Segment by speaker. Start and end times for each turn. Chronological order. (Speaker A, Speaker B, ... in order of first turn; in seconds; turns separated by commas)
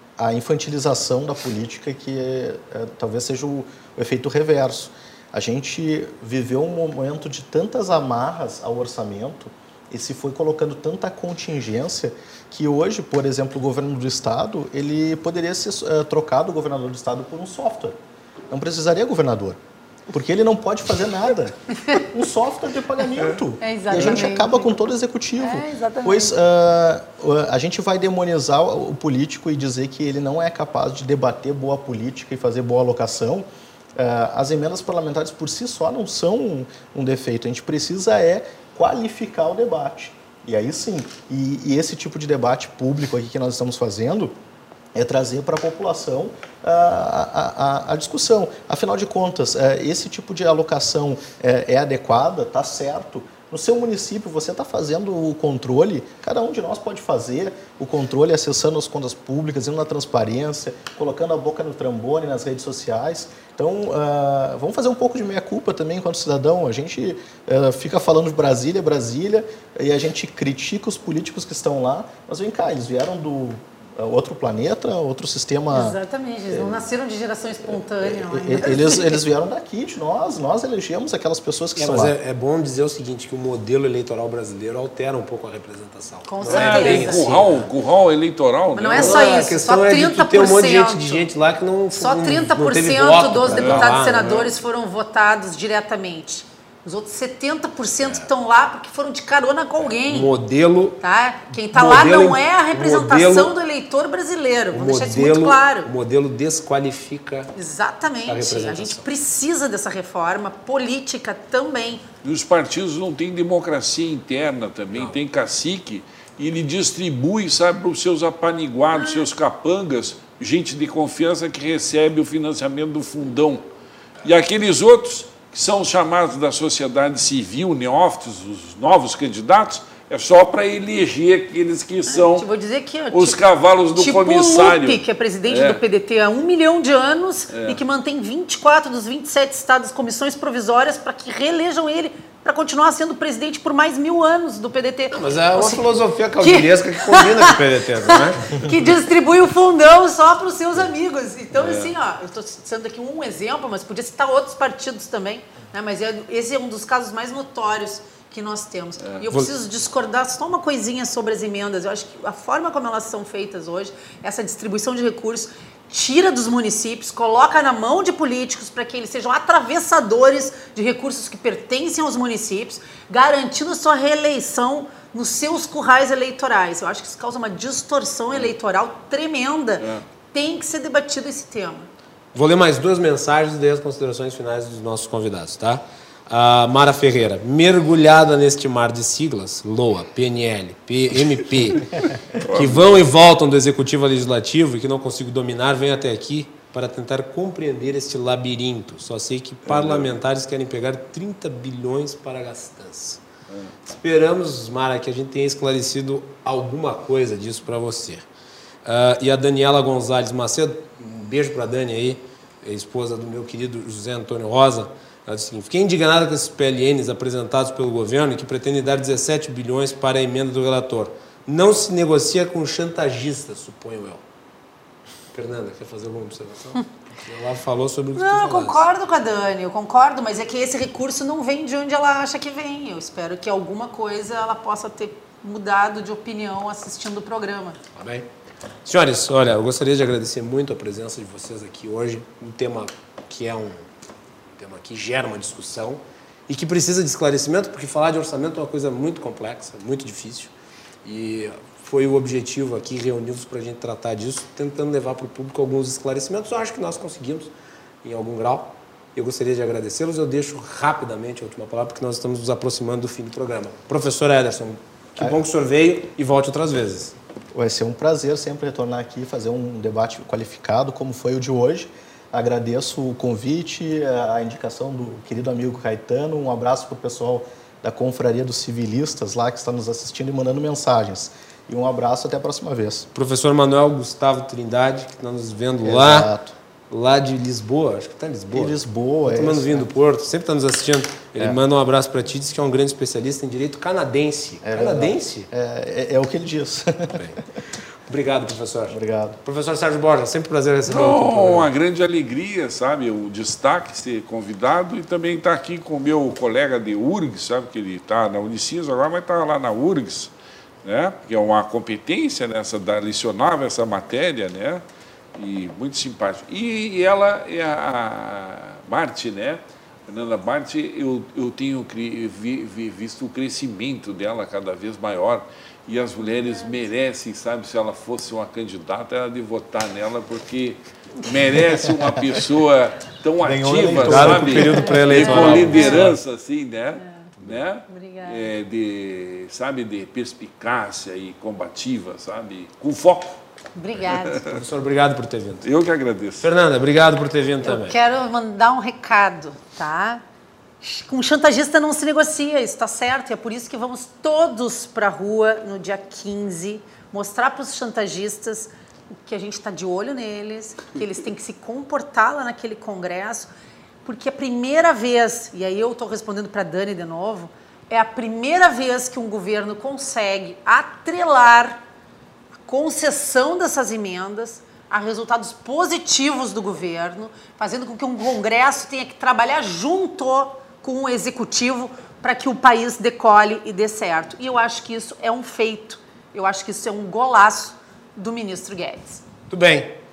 Speaker A: 0.2-18.0, Speaker A: 18.5-19.6, Speaker A: 20.1-44.3, Speaker B: 23.6-24.8, Speaker B: 25.4-26.3, Speaker A: 45.0-76.0, Speaker B: 75.7-79.2, Speaker A: 76.5-76.9, Speaker A: 77.6-82.1, Speaker C: 81.8-87.7, Speaker B: 86.3-87.3, Speaker D: 86.4-89.4, Speaker B: 88.7-91.3, Speaker C: 88.9-94.5, Speaker B: 91.9-100.3, Speaker D: 93.5-93.8, Speaker C: 100.1-101.0, Speaker B: 101.0-105.9, Speaker C: 101.7-103.5, Speaker C: 104.7-107.5, Speaker B: 107.6-112.0, Speaker C: 108.3-109.1, Speaker D: 112.2-123.6, Speaker C: 114.9-115.2, Speaker B: 118.9-119.3, Speaker D: 124.2-132.5, Speaker B: 132.1-133.4, Speaker D: 133.1-135.8, Speaker B: 133.9-145.8, Speaker D: 137.5-137.8, Speaker C: 145.1-148.7, Speaker B: 146.4-181.9, Speaker D: 151.5-151.9, Speaker C: 182.3-203.2, Speaker D: 192.4-192.9, Speaker D: 199.7-200.2, Speaker C: 203.8-208.2, Speaker C: 208.8-224.2, Speaker C: 225.3-228.9, Speaker B: 228.2-237.8, Speaker C: 237.9-238.3, Speaker C: 238.8-243.9, Speaker C: 244.5-250.5, Speaker C: 251.0-257.5, Speaker C: 258.0-267.2, Speaker A: 267.5-283.1, Speaker C: 283.1-286.3, Speaker A: 285.8-286.5, Speaker C: 286.9-295.5, Speaker A: 288.5-289.9, Speaker A: 291.4-291.6, Speaker A: 294.6-297.4, Speaker C: 298.1-301.7, Speaker A: 298.9-299.4, Speaker D: 300.9-310.3, Speaker D: 310.8-314.8, Speaker D: 315.4-343.4, Speaker B: 326.3-326.8, Speaker A: 333.4-335.1, Speaker C: 334.0-336.1, Speaker B: 335.1-336.1, Speaker B: 337.0-337.3, Speaker B: 337.9-338.5, Speaker B: 343.8-344.5, Speaker D: 344.1-344.5, Speaker C: 344.4-345.7, Speaker D: 345.6-346.5, Speaker C: 346.4-347.9, Speaker B: 347.6-350.2, Speaker B: 350.8-363.5, Speaker B: 364.0-371.8, Speaker B: 372.7-389.2, Speaker C: 389.5-390.0